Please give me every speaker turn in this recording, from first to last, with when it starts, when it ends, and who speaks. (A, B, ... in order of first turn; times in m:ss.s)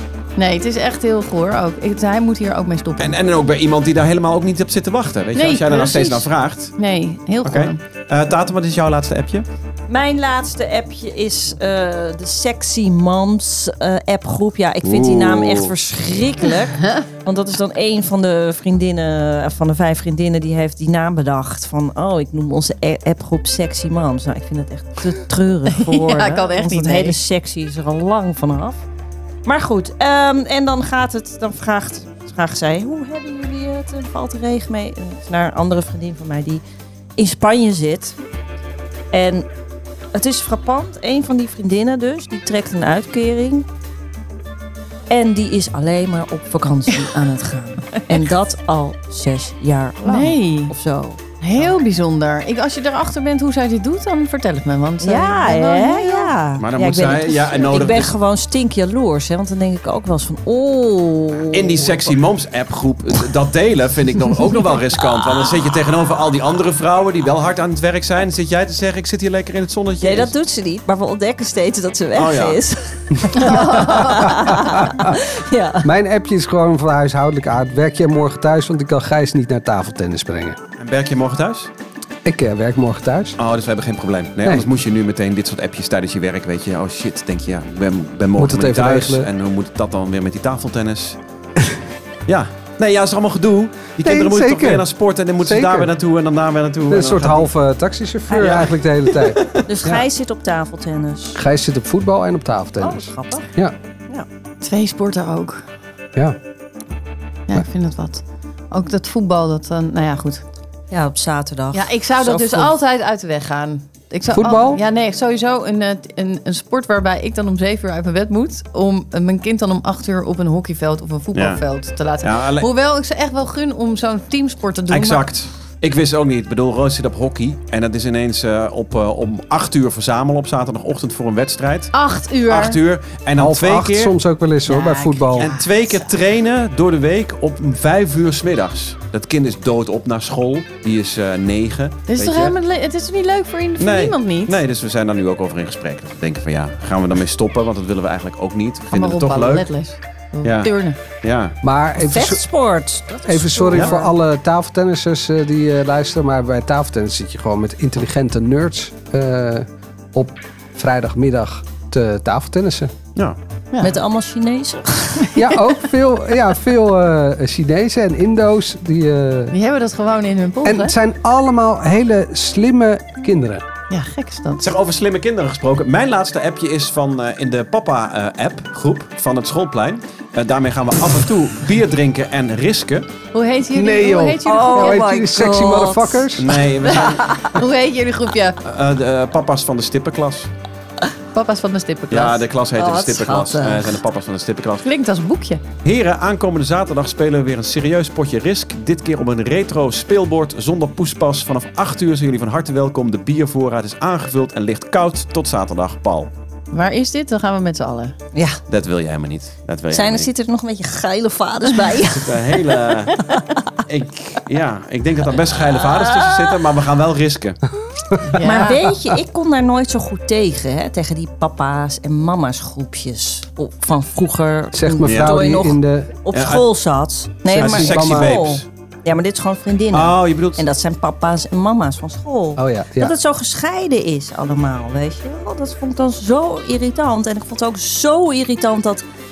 0:00.4-0:03.2 A
0:03.0-0:06.7 B
0:05.3-0:07.8 A
0:07.4-0:09.4 B
0:09.9-0:28.8 C
0:14.8-0:15.7 B
0:25.7-0:27.2 A
0:29.4-0:36.6 C
0:37.2-0:38.2 C
0:39.1-0:39.5 C
0:40.1-0:43.6 C
0:45.1-0:51.2 C
0:50.0-0:50.7 A
0:51.4-0:56.3 A
0:55.0-1:02.1 C
0:56.6-0:58.1 B
1:01.5-1:10.3 B
1:05.1-1:05.5 C
1:10.0-1:15.9 C
1:12.1-1:12.6 B
1:13.5-1:14.3 A
1:14.2-1:15.2 D
1:15.8-1:20.6 D
1:20.8-1:21.7 B
1:22.2-1:23.4 D
1:23.4-1:31.2 B
1:24.4-1:24.7 D
1:28.4-1:29.3 D
1:32.3-1:37.5 B
1:34.0-1:35.9 D
1:36.9-1:40.1 D
1:38.3-1:38.7 C
1:39.1-1:39.6 B
1:39.6-1:41.4 C
1:41.3-1:43.8 D
1:42.8-1:43.5 C
1:44.6-1:45.6 A
1:47.5-1:50.4 A
1:50.9-1:52.7 C
1:51.7-2:05.2 A
1:54.3-1:54.8 D
2:01.3-2:01.6 B
2:02.2-2:02.7 B
2:04.9-2:11.9 B
2:11.9-2:12.8 A
2:12.5-2:14.1 B
2:13.4-2:15.5 D
2:14.6-2:16.1 A
2:15.4-2:22.5 B
2:22.1-2:24.6 A
2:23.8-2:29.7 B
2:28.9-2:31.0 A
2:30.4-2:31.6 B
2:31.6-2:32.4 D
2:32.0-2:34.1 C
2:33.2-2:42.9 D
2:43.8-2:45.4 C
2:45.3-2:49.5 D
2:49.5-2:50.9 A
2:50.6-2:53.6 D
2:53.9-2:54.6 A
2:54.6-3:03.1 B
3:03.3-3:05.0 A
3:03.7-3:06.6 D
3:04.4-3:06.3 C
3:06.4-3:07.6 B
3:06.8-3:08.6 A
3:08.6-3:10.5 B
3:11.3-3:12.4 A
3:12.1-3:14.8 B
3:12.8-3:14.0 C
3:14.8-3:15.6 A
3:15.8-3:26.3 B
3:26.7-3:28.2 A
3:28.3-3:28.6 C
3:28.7-3:30.3 B
3:29.9-3:33.4 C
3:32.0-3:33.3 B
3:33.8-3:37.6 B
3:35.6-3:36.6 C
3:38.3-3:38.8 A
3:38.4-3:59.0 C
3:44.7-3:46.1 D
3:45.0-3:45.3 B
3:46.3-3:46.6 B
3:47.5-3:48.6 B
3:47.5-3:48.5 D
3:49.9-3:50.6 B
3:52.6-3:53.1 D